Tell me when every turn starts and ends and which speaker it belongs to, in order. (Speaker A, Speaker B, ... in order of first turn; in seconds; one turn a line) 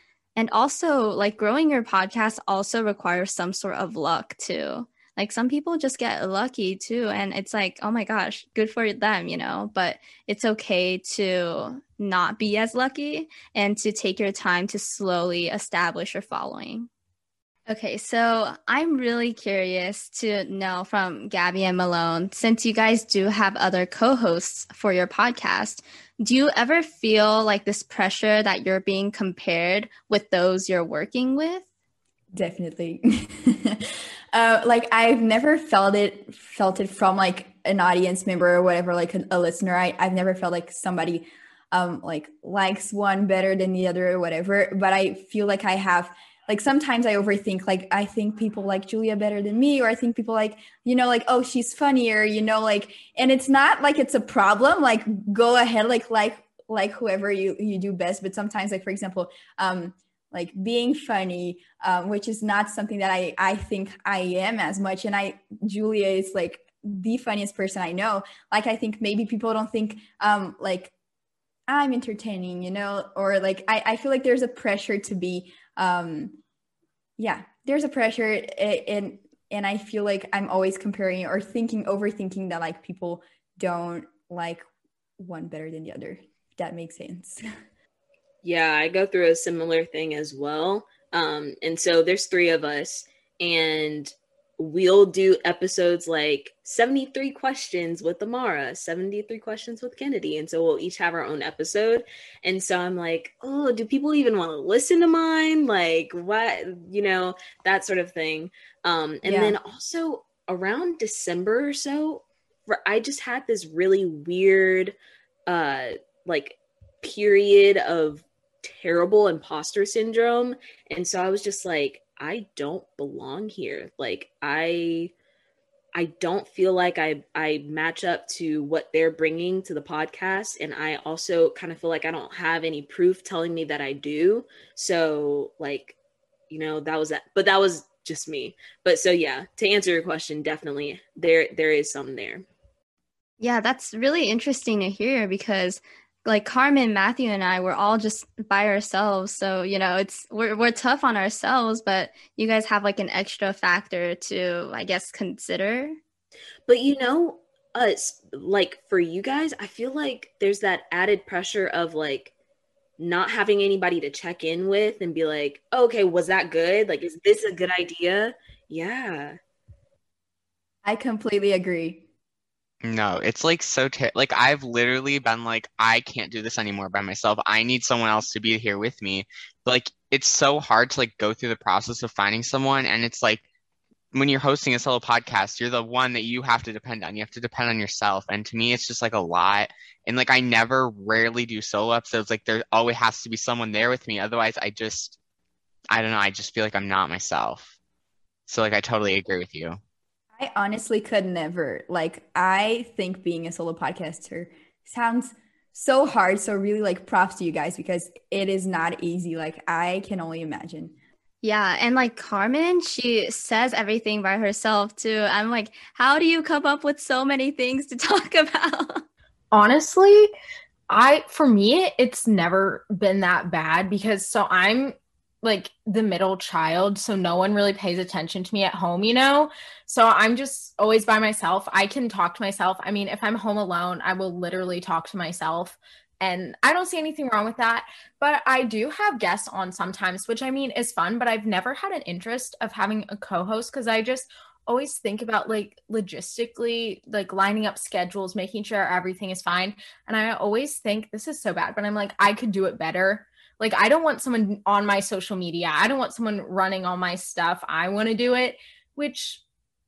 Speaker A: 0.3-16.9
Speaker A: 17.7-31.6
Speaker B: 32.3-70.9
Speaker B: 71.7-76.4
Speaker B: 77.2-84.7
Speaker B: 85.2-87.4
Speaker C: 88.4-114.9
Speaker B: 109.2-109.5
Speaker C: 115.5-125.1
Speaker C: 125.9-135.9
Speaker C: 136.5-142.4
Speaker A: 143.4-156.0
Speaker C: 156.7-162.3
Speaker C: 163.0-169.4
Speaker B: 170.8-172.0
Speaker D: 172.8-183.4
Speaker D: 184.1-195.2
Speaker D: 195.9-197.7
Speaker D: 198.5-199.8
Speaker B: 200.3-210.9
Speaker A: 211.4-219.0
Speaker E: 219.5-220.3
Speaker E: 220.9-259.4